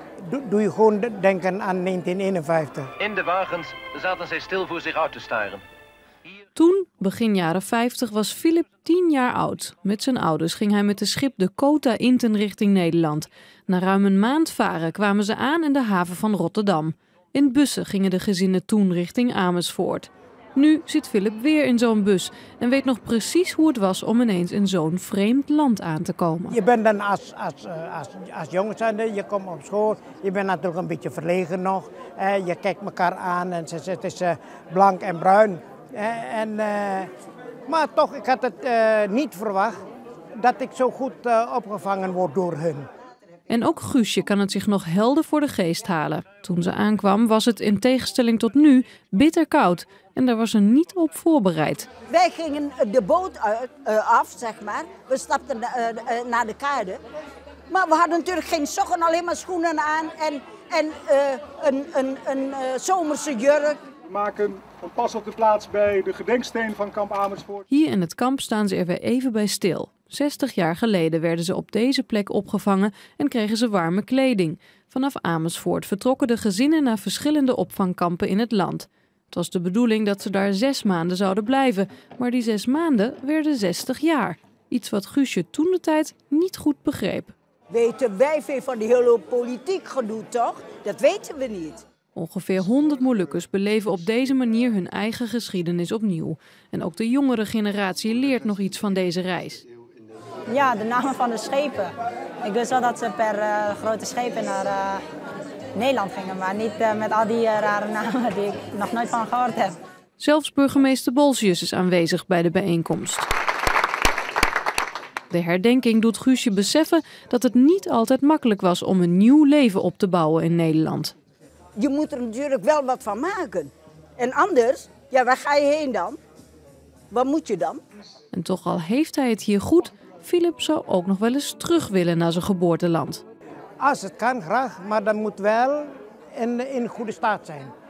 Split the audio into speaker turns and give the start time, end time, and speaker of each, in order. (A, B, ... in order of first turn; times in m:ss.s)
0:00.2-0:02.9 A
0:03.0-0:05.6 B
0:06.6-0:26.6 C
0:26.5-0:37.1 A
0:37.7-0:39.8 A
0:40.4-0:42.9 A
0:43.5-0:51.9 C
0:52.1-0:57.0 D
0:57.7-1:03.8 D
1:04.1-1:07.6 E
1:07.7-1:27.3 C
1:27.7-1:31.8 D
1:32.2-1:39.6 C
1:40.5-1:41.9 F
1:42.4-1:45.0 F
1:45.8-1:49.8 F
1:50.2-1:53.3 C
1:55.3-2:01.1 C
2:01.8-2:06.2 D
2:07.1-2:07.8 D
2:08.3-2:13.2 C
2:13.8-2:17.7 A